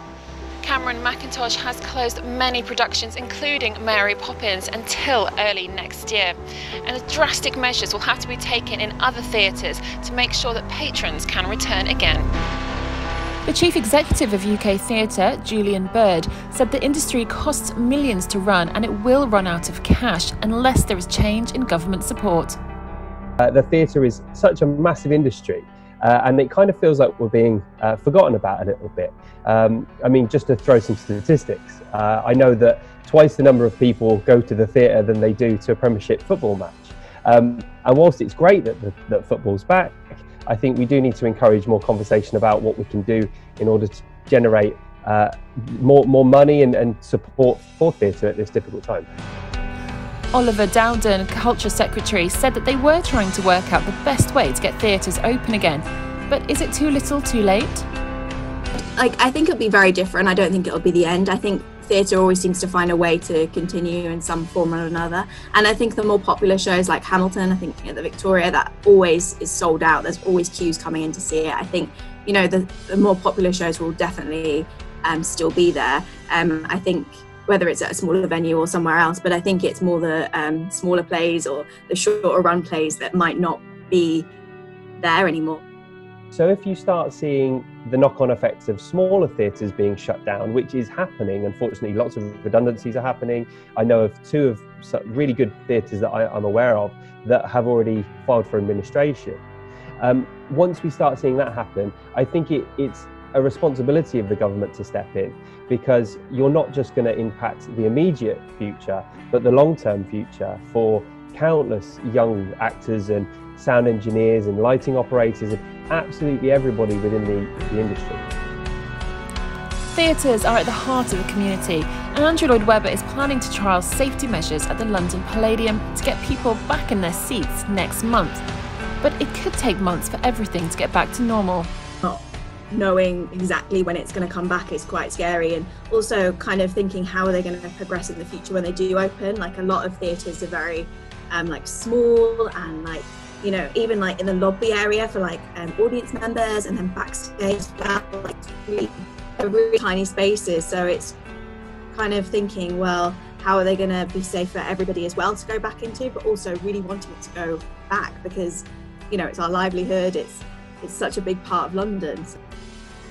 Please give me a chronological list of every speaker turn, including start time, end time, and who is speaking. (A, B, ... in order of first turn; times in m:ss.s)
0:00.6-0:12.3 A
0:13.4-0:22.6 A
0:23.4-0:49.1 B
0:50.3-0:57.9 A
0:59.0-1:24.3 C
1:25.0-1:25.6 C
1:26.3-1:39.4 B
1:40.0-1:58.2 B
1:59.9-2:08.4 A
2:09.0-2:11.7 A
2:12.0-2:31.2 C
2:31.9-2:42.4 C